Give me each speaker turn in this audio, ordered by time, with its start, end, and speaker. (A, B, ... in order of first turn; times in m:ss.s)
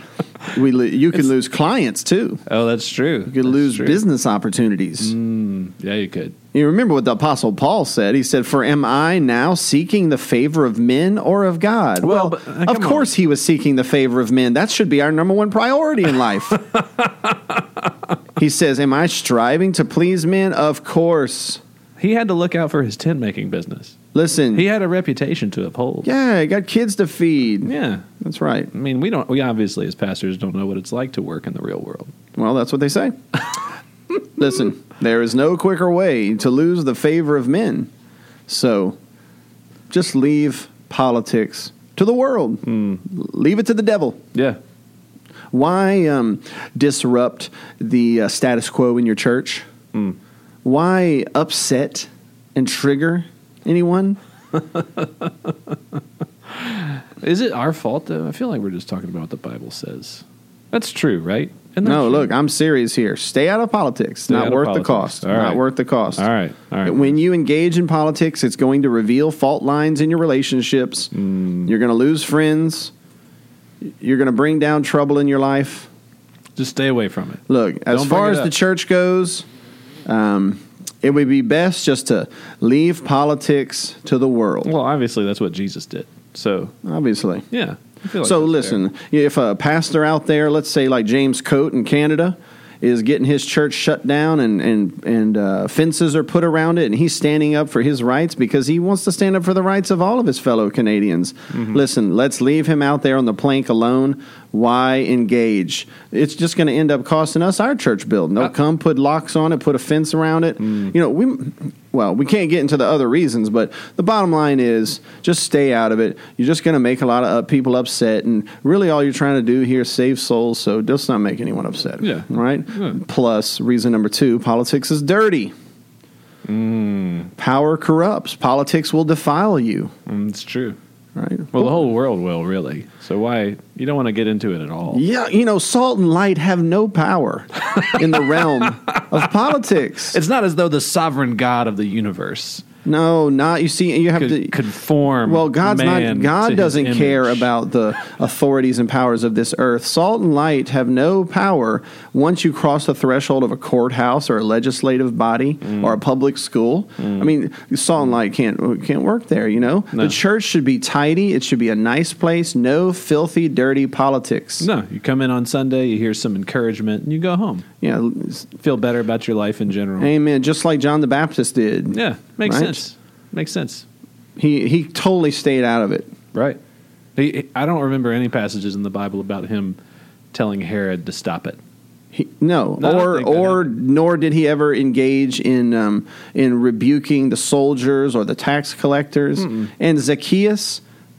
0:00.5-0:02.4 A
0:02.4-0:04.0 B
0:03.3-0:05.1 A
0:05.0-0:06.3 B
0:06.5-0:16.6 A
0:12.0-0:13.1 B
0:16.7-0:17.3 B
0:18.4-0:21.6 A
0:22.0-0:24.0 B
0:24.1-0:24.6 A
0:24.5-0:26.1 B
0:26.0-0:28.7 A
0:27.6-0:28.1 B
0:28.7-0:32.1 B
0:32.4-0:33.1 A
0:34.1-0:37.9 A
0:38.5-0:39.0 A
0:39.9-0:44.2 A
0:42.6-0:43.0 B
0:45.5-0:49.6 A
0:50.6-0:54.2 A
0:54.7-0:55.5 B
0:56.5-1:02.3 B
1:01.8-1:06.3 A
1:04.3-1:05.6 B
1:06.2-1:07.2 B
1:06.8-1:11.1 A
1:11.1-1:11.7 B
1:11.6-1:12.9 A
1:13.9-1:15.9 A
1:16.6-1:18.5 B
1:17.5-1:19.4 A
1:20.0-1:24.7 A
1:24.6-1:26.7 B
1:26.8-1:27.5 A
1:27.5-1:28.8 B
1:28.2-2:05.5 A
2:02.0-2:03.0 B
2:06.4-2:07.3 B
2:07.4-2:09.9 A
2:10.1-2:10.8 B
2:11.1-2:11.8 A
2:11.5-2:15.0 B
2:14.9-2:20.2 A
2:18.6-2:19.2 B
2:20.1-2:22.6 B
2:22.8-2:24.6 A
2:24.1-2:27.5 B
2:25.2-2:44.7 A
2:44.6-2:47.6 B
2:47.8-2:48.5 A
2:48.6-2:50.1 B
2:50.0-2:52.8 A
2:51.9-2:53.8 B
2:54.4-2:56.1 A
2:56.3-2:56.6 B
2:57.2-2:59.8 B
3:00.3-3:01.6 B
3:02.1-3:10.8 A
3:02.8-3:03.8 B
3:09.4-3:09.7 B